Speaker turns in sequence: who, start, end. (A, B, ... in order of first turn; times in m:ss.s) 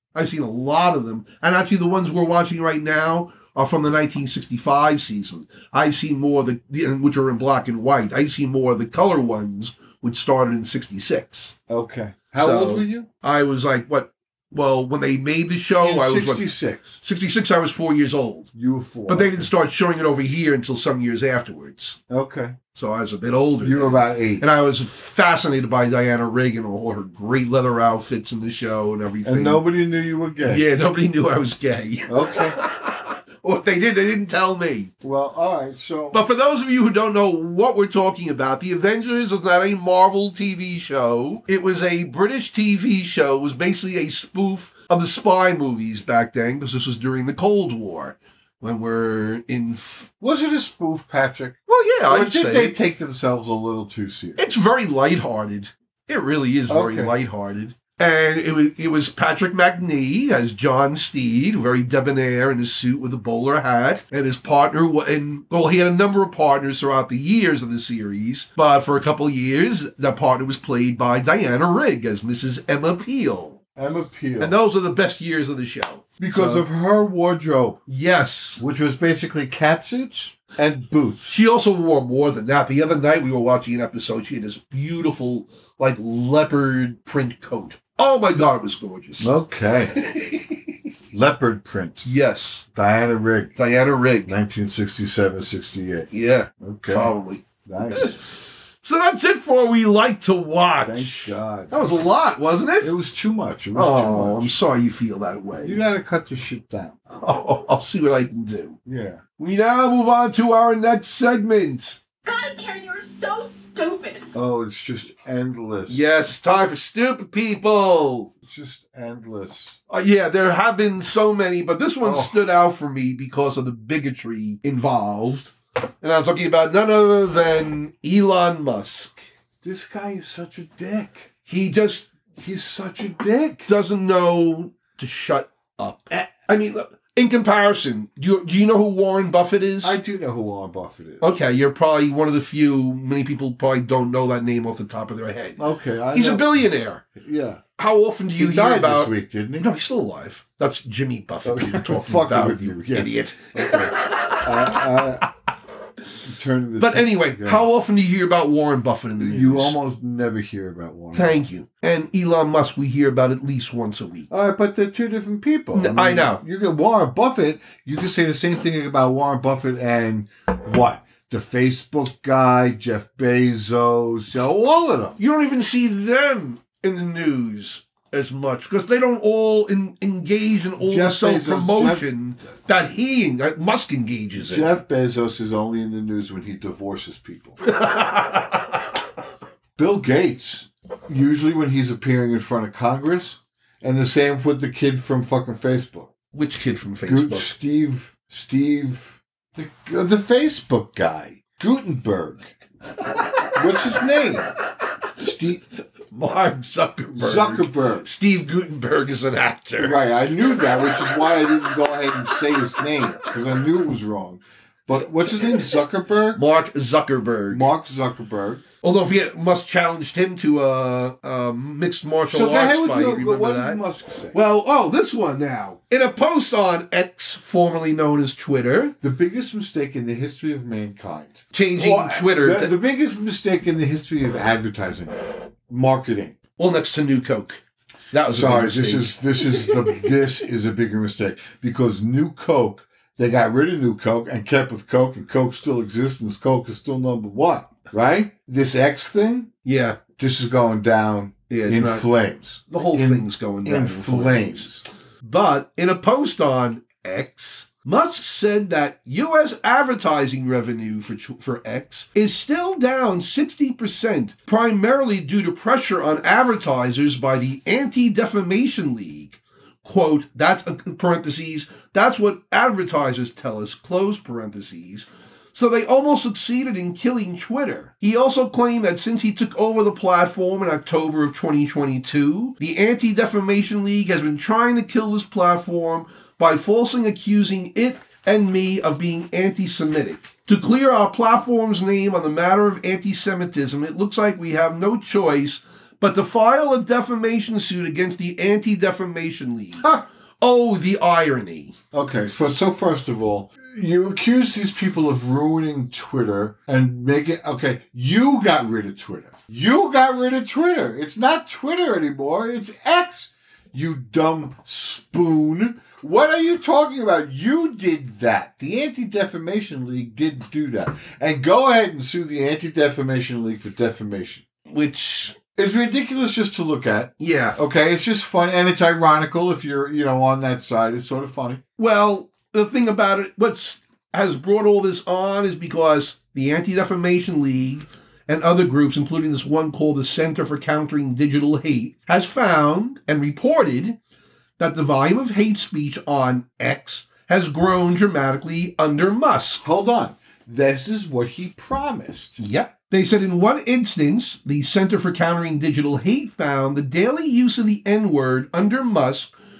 0:00.1-0:11.5 A
0:11.7-0:13.1 B
0:12.4-0:18.5 A
0:15.8-0:16.9 B
0:18.5-0:19.5 B
0:19.1-0:22.0 A
0:22.1-0:22.6 B
0:22.7-0:29.6 A
0:23.6-0:24.5 B
0:29.2-0:30.6 B
0:30.4-0:34.9 A
0:32.1-0:32.6 B
0:35.0-0:36.2 B
0:36.1-0:50.0 A
0:50.2-0:54.4 B
0:51.7-0:52.8 A
0:54.4-1:13.6 A
0:56.7-0:57.1 B
1:13.8-1:14.6 B
1:14.4-1:16.6 A
1:16.2-1:17.8 B
1:17.9-1:18.6 A
1:18.6-1:21.4 B
1:21.3-1:29.3 A
1:29.2-1:30.0 B
1:30.0-1:30.7 A
1:31.1-1:32.1 B
1:32.0-1:32.6 A
1:32.7-1:33.5 B
1:33.6-1:34.3 A
1:34.2-1:37.1 B
1:36.1-1:38.2 A
1:37.6-1:38.2 B
1:38.8-1:42.9 A
1:40.8-1:41.8 B
1:42.8-1:44.6 B
1:43.7-1:45.8 A
1:45.6-1:46.9 B
1:47.2-1:48.8 A
1:48.8-1:49.2 B
1:49.4-1:52.0 A
1:52.2-1:54.3 C
1:54.3-1:56.1 B
1:55.9-1:58.3 A
1:58.4-1:59.8 B
1:59.9-2:09.2 A
2:02.0-2:02.4 B
2:09.6-2:11.3 B
2:11.5-2:12.1 A
2:12.4-2:13.7 B
2:13.7-2:20.0 A
2:19.8-2:21.4 B
2:21.2-2:25.6 A
2:25.6-2:27.6 B
2:26.1-2:27.0 A
2:27.8-2:34.9 A
2:28.4-2:29.7 B
2:31.4-2:35.3 B
2:36.2-2:37.7 B
2:36.8-2:39.8 A
2:39.2-2:41.4 B
2:41.1-2:44.3 A
2:44.3-2:55.2 B
2:45.7-2:46.4 A
2:55.2-3:04.7 A
3:00.8-3:02.1 B
3:04.3-3:07.6 B
3:07.8-3:08.5 A
3:09.8-3:16.1 B
3:16.3-3:17.5 A
3:17.0-3:22.5 B
3:23.5-3:24.6 B
3:25.2-3:25.6 B
3:26.1-3:30.0 A
3:27.2-3:28.1 B
3:29.8-3:36.4 B
3:36.3-3:37.7 A
3:37.5-3:38.6 B
3:38.8-3:43.8 A
3:42.3-3:44.4 B
3:44.3-3:48.9 A
3:49.0-3:56.4 B
3:51.5-3:52.7 A
3:56.6-3:57.6 A
3:58.1-3:59.9 A
3:58.3-4:09.5 B
4:09.6-4:10.0 A
4:10.2-4:14.8 B
4:11.5-4:12.1 A
4:12.7-4:14.7 A
4:15.2-4:59.9 A
5:00.4-5:01.8 A
5:01.9-5:24.4 B
5:24.7-5:25.4 A
5:25.5-5:31.6 B
5:27.2-5:27.6 A
5:31.8-5:44.0 A
5:44.6-5:49.6 A
5:49.6-5:52.4 B
5:52.4-5:59.3 A